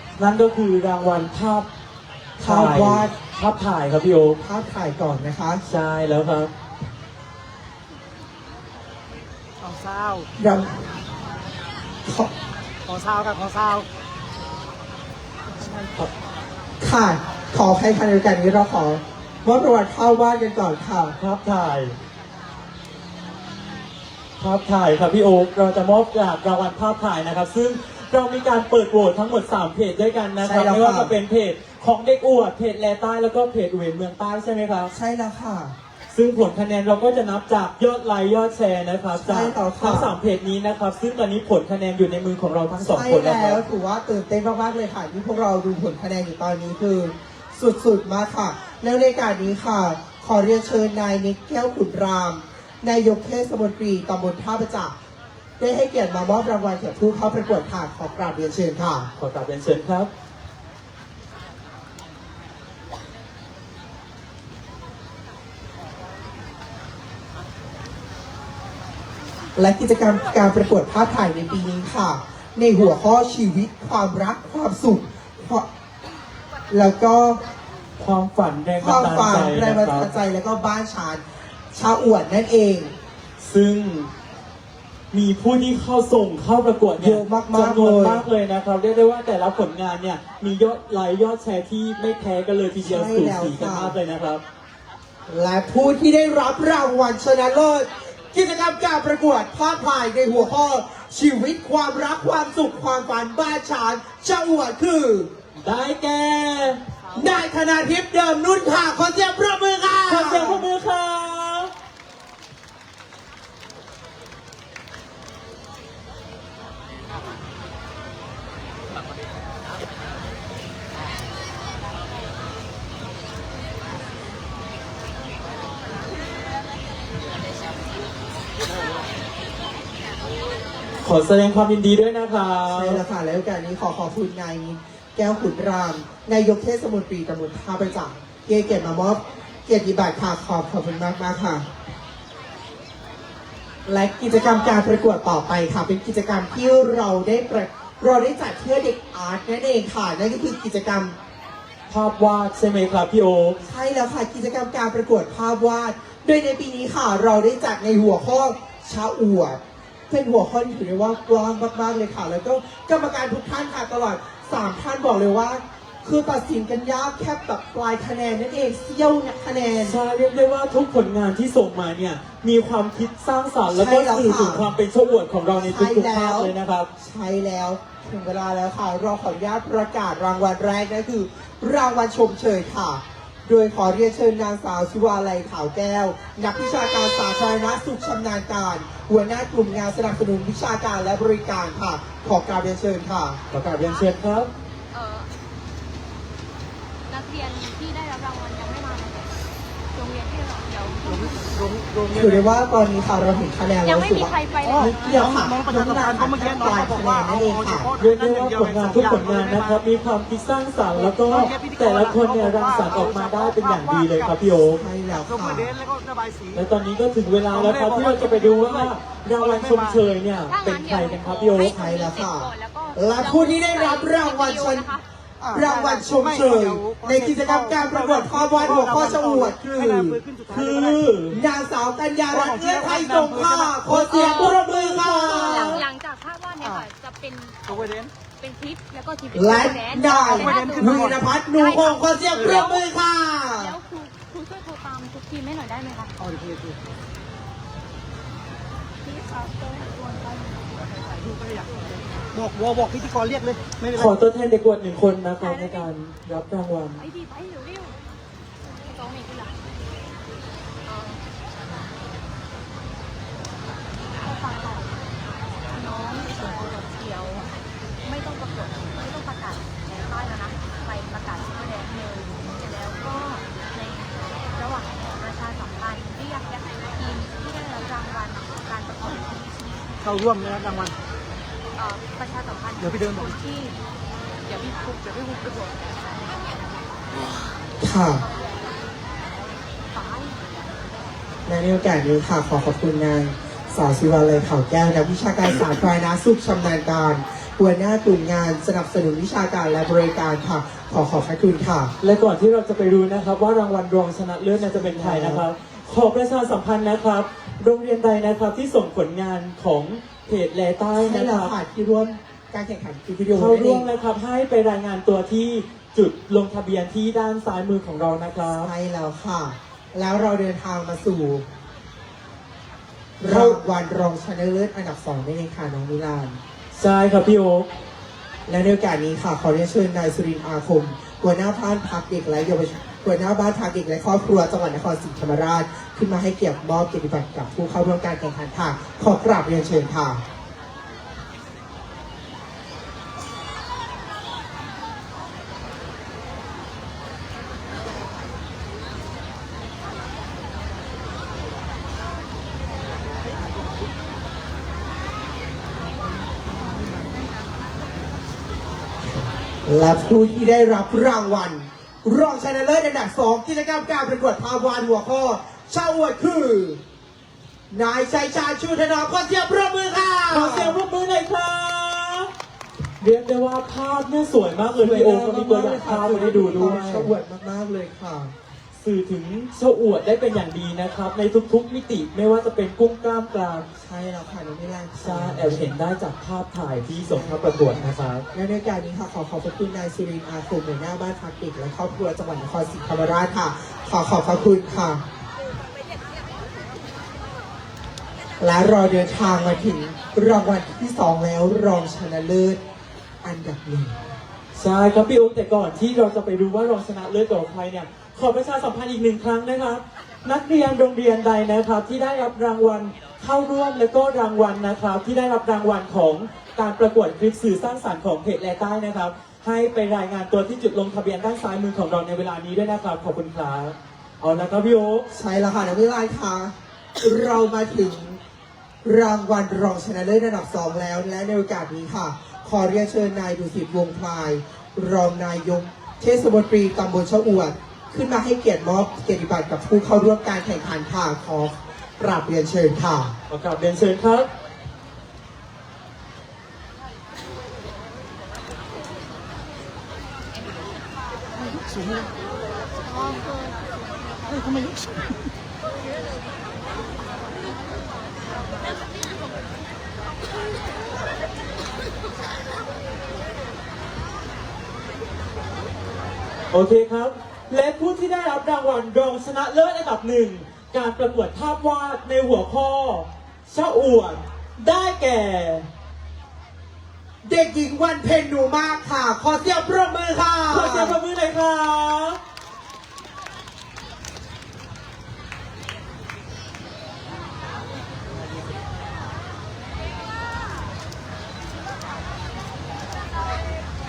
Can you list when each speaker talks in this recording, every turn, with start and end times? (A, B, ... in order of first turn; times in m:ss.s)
0:00.2-0:01.7 A
0:02.4-0:04.4 A
0:02.4-0:03.1 B
0:04.4-0:05.6 B
0:05.7-0:06.5 A
0:09.6-0:10.3 C
0:10.4-0:10.8 B
0:12.1-0:12.3 B
0:12.9-0:13.9 C
0:15.5-0:16.1 C
0:16.8-0:21.2 B
0:21.2-0:22.0 A
0:24.4-0:34.9 A
0:30.4-0:31.1 B
0:34.9-0:35.8 B
0:36.1-0:43.6 A
0:39.2-0:40.1 B
0:42.8-0:55.0 B
0:55.6-0:59.1 B
0:59.2-1:00.1 A
1:09.6-1:15.7 B
1:16.7-1:17.4 B
1:18.0-1:20.1 A
1:18.8-1:22.9 B
1:23.4-1:24.1 A
1:25.1-1:34.4 A
1:27.0-1:28.2 B
1:32.8-1:34.0 B
1:35.3-1:45.3 B
1:45.6-1:46.8 A
1:47.0-1:47.4 C
1:47.1-1:50.7 B
1:50.1-1:51.7 A
2:11.0-2:13.0 A
2:12.7-2:21.7 B
2:23.9-2:31.2 B
2:31.9-2:33.6 A
2:33.6-2:50.0 B
2:49.8-2:56.9 A
2:53.7-2:54.7 B
2:55.6-3:13.4 B
3:13.5-3:14.5 A
3:13.8-3:14.1 D
3:14.9-3:15.3 D
3:17.1-3:19.4 D
3:19.9-3:21.6 D
3:21.1-3:22.5 C
3:22.1-3:27.9 B
3:23.8-3:25.3 D
3:24.6-3:29.8 C
3:28.0-3:34.8 A
3:31.0-3:34.5 C
3:34.7-3:35.7 B
3:35.1-3:36.7 C
3:36.5-3:41.8 A
3:37.5-3:40.0 C
3:40.5-3:45.0 D
3:41.7-3:44.9 B
3:45.4-3:51.1 C
3:45.5-3:50.2 B
3:50.5-3:51.4 A
3:51.3-3:55.8 B
3:52.3-3:54.1 C
3:54.1-3:57.8 D
3:54.1-3:55.8 A
3:56.6-3:56.9 C
3:57.7-3:58.1 C
3:58.4-4:02.8 D
3:59.3-4:03.8 B
4:00.0-4:01.2 C
4:02.4-4:02.8 C
4:03.6-4:06.1 D
4:06.2-4:06.8 C
4:09.0-4:10.7 D
4:10.9-4:14.1 C
4:13.9-4:17.0 A
4:15.4-4:15.9 D
4:17.0-4:18.0 D
4:18.6-4:19.6 D
4:20.8-4:21.2 D
4:24.2-4:25.0 D
4:25.7-4:27.5 D
4:28.0-4:39.9 D
4:40.0-4:41.0 C
4:41.8-4:43.8 D
4:42.8-4:43.4 C
4:44.4-4:46.0 D
4:47.8-4:48.2 B
4:48.2-4:49.0 D
4:49.5-4:50.7 D
4:51.5-5:01.9 B
5:02.0-5:11.6 A
5:04.6-5:05.4 B
5:11.0-5:13.9 B
5:13.3-5:18.7 A
5:18.6-5:21.4 B
5:23.2-5:26.4 B
5:23.2-5:23.6 A
5:26.7-5:27.7 A
5:28.5-5:40.2 B
5:59.6-6:06.8 B
6:07.7-6:10.8 B
6:10.3-6:12.3 A
6:13.0-6:17.1 A
6:14.8-6:18.3 B
6:18.8-6:23.7 A
6:23.8-6:25.7 B
6:25.0-6:28.2 A
6:27.1-6:35.0 B
6:38.4-6:42.6 B
6:43.2-6:44.0 B
6:44.5-7:05.1 A
7:05.1-7:08.2 B
7:08.8-7:23.2 B
7:23.3-7:24.3 A
7:31.5-7:32.1 C
7:33.0-7:33.6 D
7:34.3-7:35.1 C
7:46.5-7:55.7 A
7:57.2-8:01.0 B
8:00.5-8:02.2 A